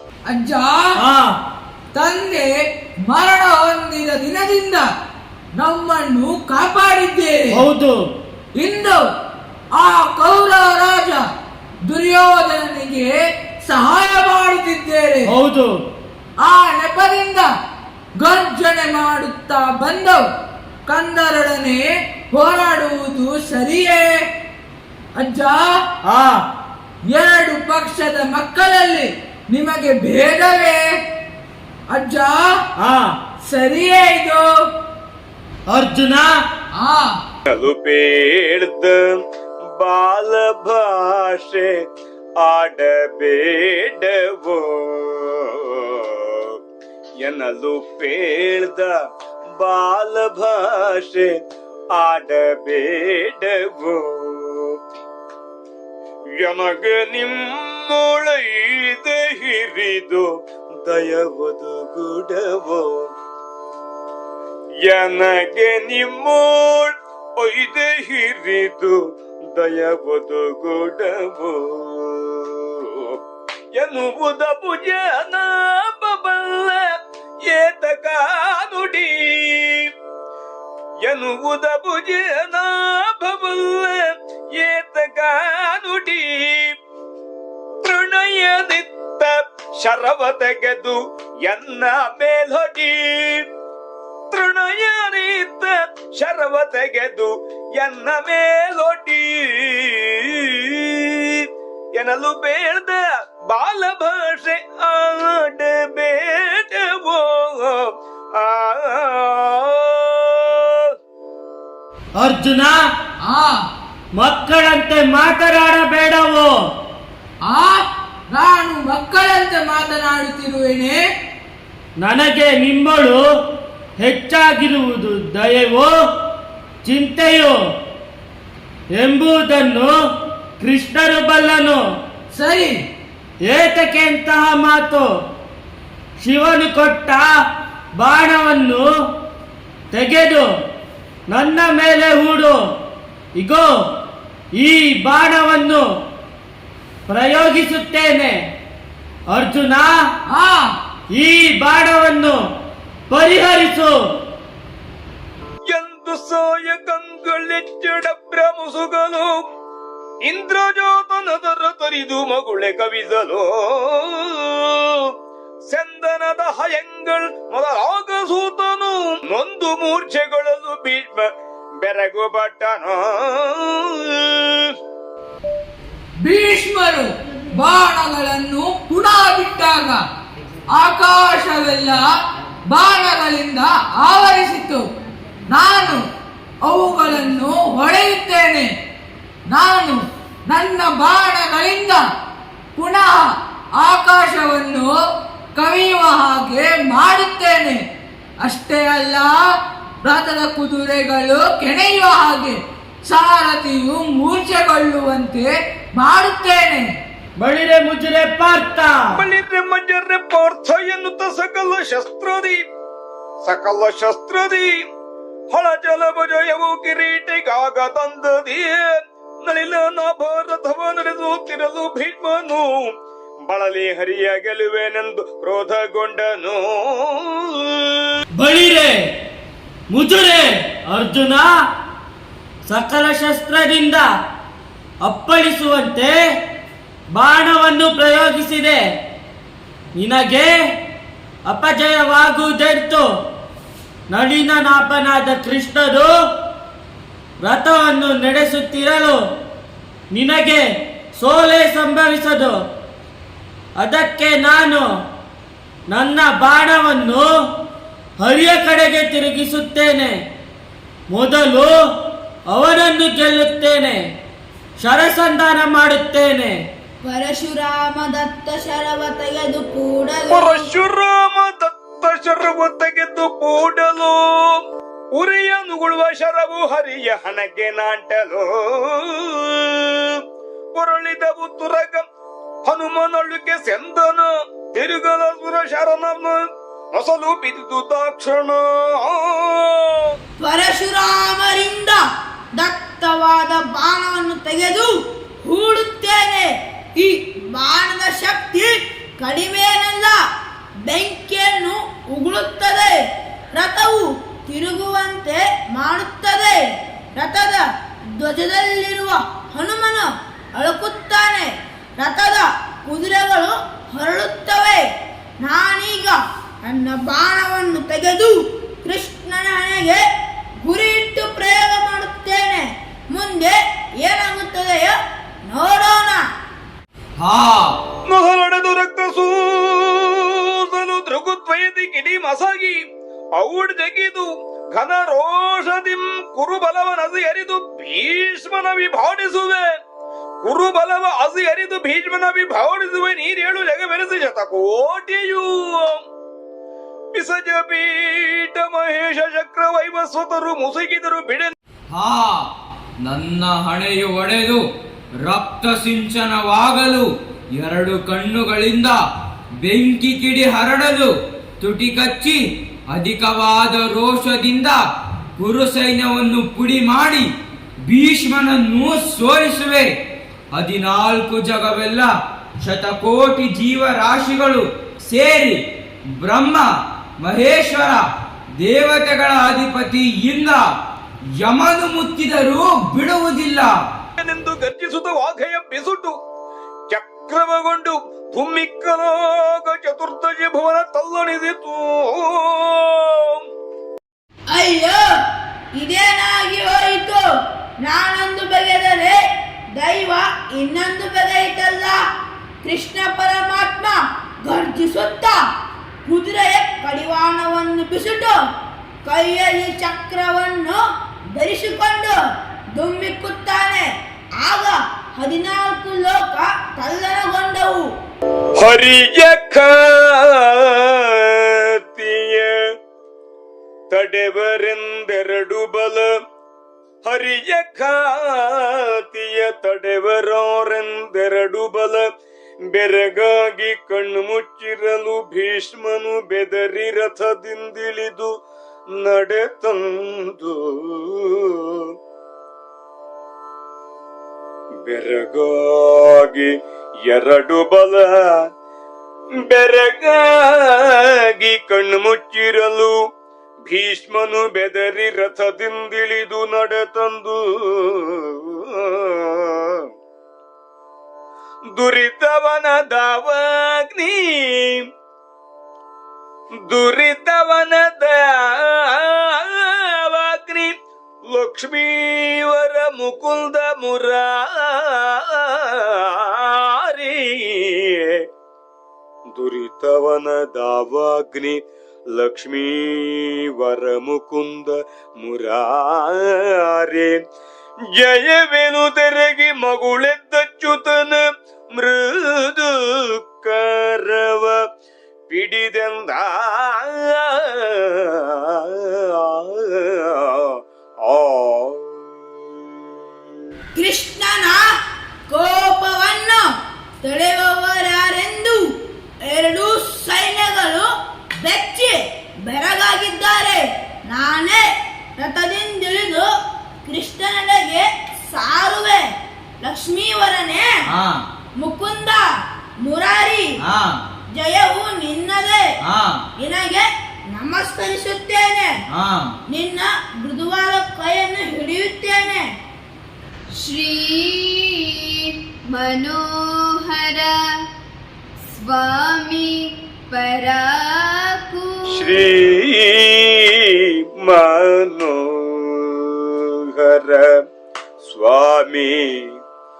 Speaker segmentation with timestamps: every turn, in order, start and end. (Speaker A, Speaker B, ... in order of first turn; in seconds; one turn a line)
Speaker A: 0.3-1.0
Speaker B: 1.0-1.3
Speaker A: 1.9-2.5
Speaker A: 3.1-4.9
Speaker A: 5.6-7.6
Speaker B: 7.5-8.0
Speaker A: 8.6-9.0
Speaker A: 9.8-11.2
Speaker A: 11.9-13.1
Speaker A: 13.7-15.3
Speaker B: 15.3-15.7
Speaker A: 16.4-17.5
Speaker A: 18.2-20.2
Speaker A: 20.9-24.2
Speaker A: 25.2-25.7
Speaker B: 26.1-26.4
Speaker A: 27.1-30.8
Speaker A: 31.9-32.5
Speaker B: 32.8-33.1
Speaker A: 33.5-34.5
Speaker B: 35.7-36.3
Speaker A: 36.8-37.2
Speaker C: 37.5-39.2
Speaker C: 39.8-41.7
Speaker C: 42.4-46.6
Speaker C: 47.2-48.9
Speaker C: 49.6-51.3
Speaker C: 51.9-54.8
Speaker C: 56.4-60.2
Speaker C: 60.8-63.1
Speaker C: 64.8-73.2
Speaker C: 73.7-76.9
Speaker C: 77.4-79.9
Speaker C: 81.0-86.7
Speaker C: 87.8-93.5
Speaker C: 94.3-110.9
Speaker B: 112.2-112.8
Speaker A: 113.3-113.6
Speaker B: 114.2-116.5
Speaker A: 117.5-121.0
Speaker B: 122.0-123.2
Speaker B: 124.0-125.9
Speaker B: 126.8-127.5
Speaker B: 128.9-129.9
Speaker B: 130.6-131.8
Speaker A: 132.3-132.7
Speaker B: 133.4-135.1
Speaker B: 136.2-137.3
Speaker B: 138.0-138.9
Speaker B: 139.9-140.5
Speaker B: 141.3-142.6
Speaker B: 143.4-143.7
Speaker B: 144.6-145.8
Speaker B: 147.1-148.4
Speaker B: 149.3-149.9
Speaker A: 150.3-150.7
Speaker B: 151.1-152.4
Speaker B: 153.1-153.9
Speaker C: 155.7-159.4
Speaker C: 160.2-165.1
Speaker C: 165.7-171.3
Speaker C: 171.8-174.7
Speaker A: 176.2-180.0
Speaker A: 180.7-182.0
Speaker A: 182.7-184.8
Speaker A: 185.5-186.0
Speaker A: 186.6-188.7
Speaker A: 189.5-192.0
Speaker A: 192.8-194.9
Speaker A: 195.6-197.8
Speaker A: 198.4-199.3
Speaker A: 200.0-206.9
Speaker B: 207.4-209.1
Speaker C: 209.1-212.6
Speaker C: 213.4-214.8
Speaker C: 215.5-222.9
Speaker C: 223.5-228.0
Speaker B: 228.4-229.0
Speaker B: 229.9-231.5
Speaker B: 232.7-234.1
Speaker B: 235.0-236.2
Speaker B: 237.1-238.8
Speaker B: 239.9-240.6
Speaker B: 241.4-243.1
Speaker B: 244.1-246.1
Speaker B: 247.4-249.2
Speaker B: 250.1-252.6
Speaker B: 253.8-254.9
Speaker B: 255.9-257.3
Speaker B: 258.2-260.2
Speaker B: 261.1-261.7
Speaker B: 262.5-264.0
Speaker B: 264.8-266.6
Speaker D: 267.0-270.7
Speaker C: 270.3-274.6
Speaker C: 275.1-280.2
Speaker C: 280.7-282.0
Speaker C: 282.6-290.1
Speaker D: 290.4-292.0
Speaker D: 292.6-300.2
Speaker D: 300.9-303.0
Speaker D: 303.5-306.6
Speaker D: 307.2-314.8
Speaker D: 315.4-320.0
Speaker D: 320.6-326.2
Speaker E: 327.2-327.8
Speaker C: 328.1-332.8
Speaker C: 333.3-339.7
Speaker C: 340.4-346.0
Speaker C: 347.1-351.5
Speaker E: 351.9-352.5
Speaker E: 353.0-354.6
Speaker E: 355.2-359.0
Speaker E: 359.6-364.8
Speaker E: 365.4-367.3
Speaker E: 367.9-369.9
Speaker E: 370.5-375.6
Speaker E: 376.2-376.7
Speaker E: 377.2-378.0
Speaker E: 378.6-380.6
Speaker E: 381.4-383.7
Speaker C: 384.2-386.2
Speaker C: 386.9-393.4
Speaker D: 394.5-395.1
Speaker D: 395.8-397.2
Speaker D: 397.8-399.2
Speaker D: 399.8-402.0
Speaker D: 402.6-405.4
Speaker D: 406.1-408.4
Speaker D: 409.0-410.8
Speaker D: 411.3-412.2
Speaker D: 412.8-417.9
Speaker C: 418.6-422.6
Speaker C: 423.9-426.1
Speaker C: 427.0-432.1
Speaker C: 432.7-438.3
Speaker C: 438.9-441.9
Speaker C: 444.8-446.5
Speaker C: 447.1-448.4
Speaker C: 449.5-453.0
Speaker C: 453.7-459.8
Speaker C: 461.7-464.9
Speaker C: 466.7-470.7
Speaker C: 471.3-478.2
Speaker C: 479.3-481.6
Speaker C: 482.1-487.2
Speaker C: 488.0-491.2
Speaker C: 491.7-494.6
Speaker C: 495.3-502.2
Speaker D: 503.7-504.6
Speaker D: 505.3-506.4
Speaker D: 507.0-508.6
Speaker D: 509.3-510.9
Speaker D: 511.4-516.3
Speaker D: 516.9-519.1
Speaker D: 519.6-520.7
Speaker E: 520.9-521.2
Speaker D: 521.6-522.2
Speaker D: 522.8-523.5
Speaker E: 523.6-524.0
Speaker D: 524.4-525.7
Speaker E: 525.8-526.2
Speaker D: 526.4-528.7
Speaker E: 528.9-529.4
Speaker D: 529.5-532.5
Speaker F: 533.6-537.6
Speaker F: 538.4-541.8
Speaker C: 541.9-547.4
Speaker C: 548.0-549.3